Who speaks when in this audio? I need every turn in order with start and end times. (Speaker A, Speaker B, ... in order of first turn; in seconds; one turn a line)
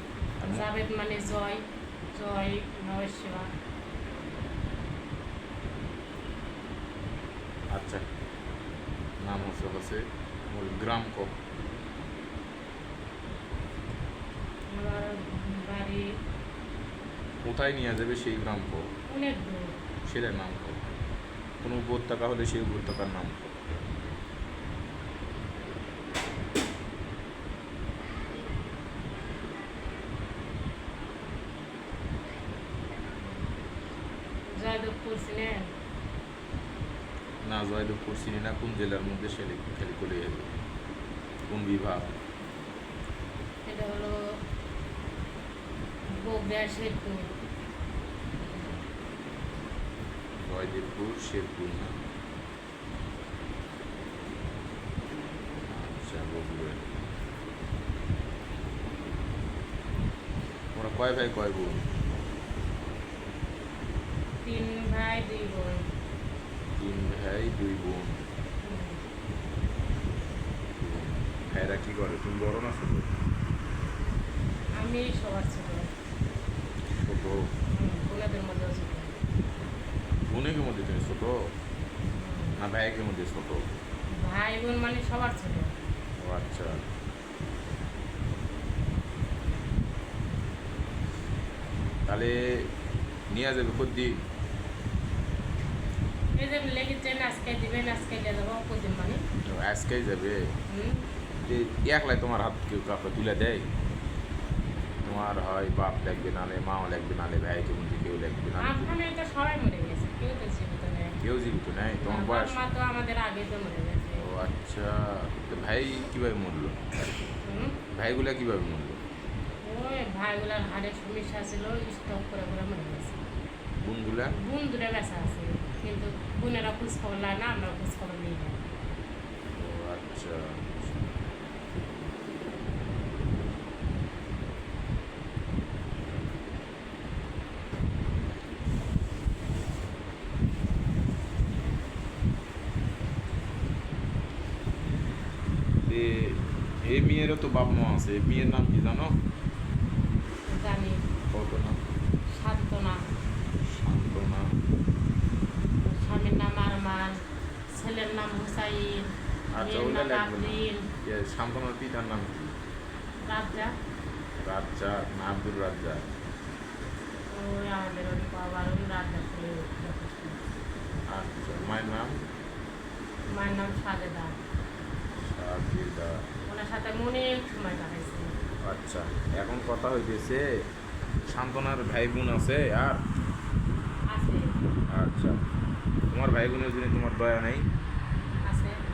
Speaker A: 0.4-0.7
Speaker B: 0.4-3.5
Speaker A: 7.7-8.0
Speaker A: 9.2-11.3
Speaker B: 14.7-16.1
Speaker A: 17.4-18.9
Speaker B: 19.1-19.7
Speaker A: 20.0-20.8
Speaker A: 21.6-23.5
Speaker B: 34.5-35.7
Speaker A: 37.4-40.5
Speaker A: 41.5-42.2
Speaker B: 43.6-44.4
Speaker B: 46.1-47.3
Speaker A: 48.5-48.8
Speaker A: 50.4-52.0
Speaker A: 55.7-56.8
Speaker A: 60.7-62.0
Speaker B: 64.4-65.9
Speaker A: 66.8-68.2
Speaker B: 68.6-69.0
Speaker A: 70.8-73.1
Speaker B: 74.8-75.9
Speaker A: 77.0-77.5
Speaker B: 77.7-79.1
Speaker A: 80.3-81.5
Speaker B: 82.1-82.5
Speaker A: 82.6-83.7
Speaker B: 84.2-85.7
Speaker A: 86.2-86.8
Speaker A: 92.1-92.7
Speaker A: 93.3-94.2
Speaker B: 96.3-99.2
Speaker A: 99.4-100.5
Speaker B: 100.7-101.0
Speaker A: 101.4-103.7
Speaker A: 105.0-108.9
Speaker B: 108.6-111.2
Speaker A: 111.2-112.6
Speaker B: 112.0-114.2
Speaker A: 114.2-116.9
Speaker B: 117.4-117.8
Speaker A: 117.9-119.0
Speaker B: 119.6-123.2
Speaker A: 123.8-124.3
Speaker B: 124.3-128.6
Speaker A: 129.6-131.1
Speaker A: 145.8-149.2
Speaker B: 150.5-151.1
Speaker A: 151.3-151.8
Speaker B: 152.3-153.1
Speaker A: 153.6-154.6
Speaker B: 155.8-160.9
Speaker A: 159.5-162.5
Speaker B: 163.2-163.7
Speaker A: 164.4-166.1
Speaker B: 167.3-170.4
Speaker A: 171.1-172.2
Speaker B: 173.3-174.4
Speaker A: 175.1-176.2
Speaker B: 176.5-178.3
Speaker A: 178.6-180.4
Speaker A: 181.3-183.0
Speaker B: 184.1-184.5
Speaker A: 184.9-185.4
Speaker A: 186.1-187.7
Speaker B: 188.5-188.8